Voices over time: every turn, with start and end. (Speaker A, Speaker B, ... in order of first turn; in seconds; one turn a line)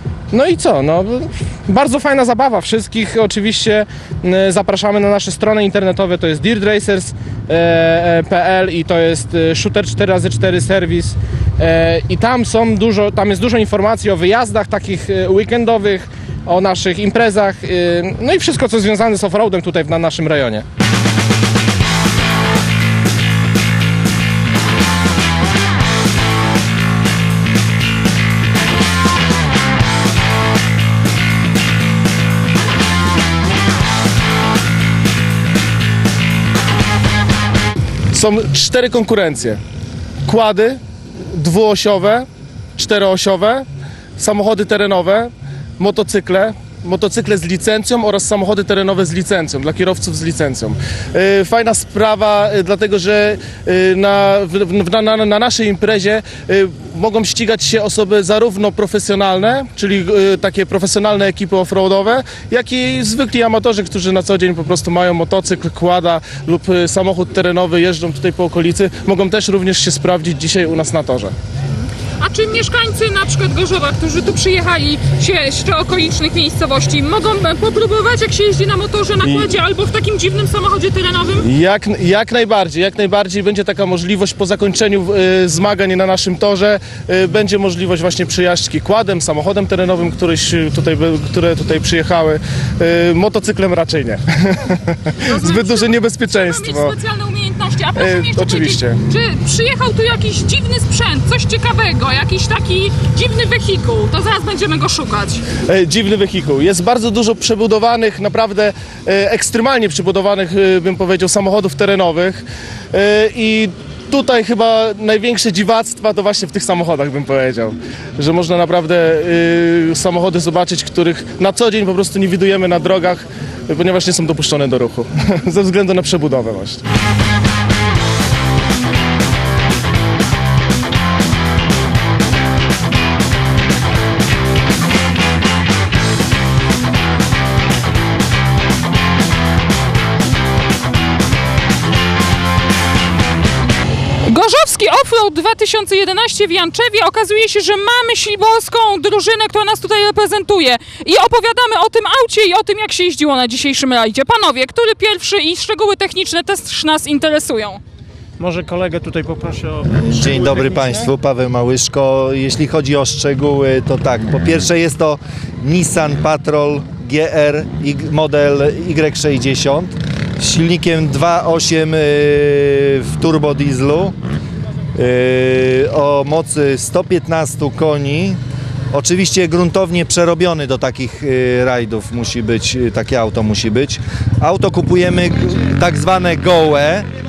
Speaker A: 0.3-20.6
Speaker B: 38.1-39.6
Speaker B: 40.3-40.8
Speaker B: 41.3-42.3
Speaker B: 42.8-43.6
Speaker B: 44.2-71.3
Speaker C: 72.2-81.5
Speaker B: 79.2-79.5
Speaker B: 81.4-97.0
Speaker C: 95.3-105.5
Speaker B: 98.0-99.0
Speaker B: 105.5-126.8
Speaker C: 144.3-157.8
Speaker D: 158.4-161.1
Speaker E: 160.1-174.2
Speaker E: 174.9-178.4
Speaker E: 178.9-187.1